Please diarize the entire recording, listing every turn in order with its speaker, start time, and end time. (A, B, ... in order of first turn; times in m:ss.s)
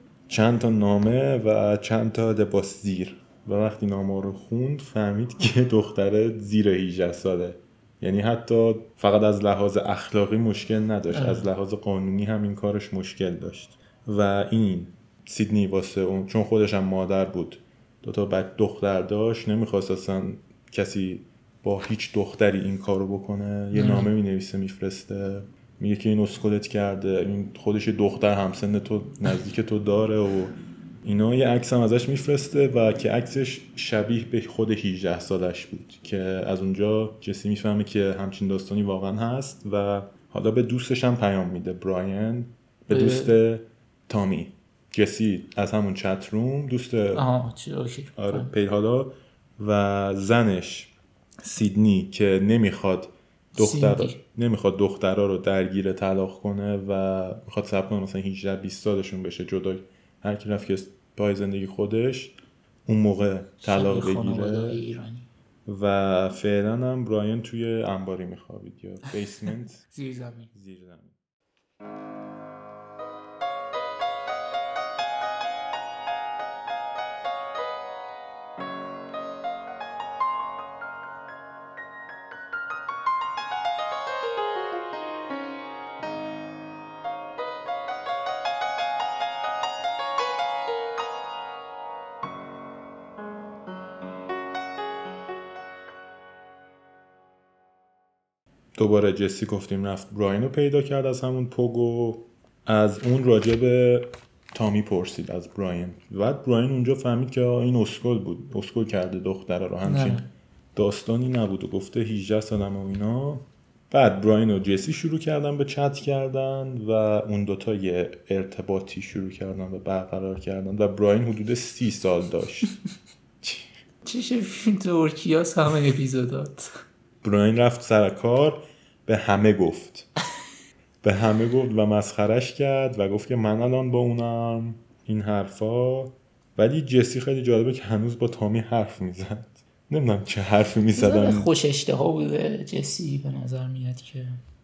0:00.3-0:47.3 A
0:11.1-0:11.5 B
0:23.7-0:24.1 B
0:42.9-0:43.4 B
0:47.1-0:48.5 B
0:48.2-1:04.8 A
0:53.5-0:54.2 B
1:03.6-1:05.3 B
1:05.7-1:09.8 A
1:09.9-1:10.5 B
1:10.5-1:11.2 A
1:38.8-2:02.7 A
1:49.8-1:50.3 B
2:03.4-2:03.7 A
2:04.0-2:06.7 B
2:07.2-2:10.1 A
2:11.0-2:21.5 A
2:21.0-2:24.4 B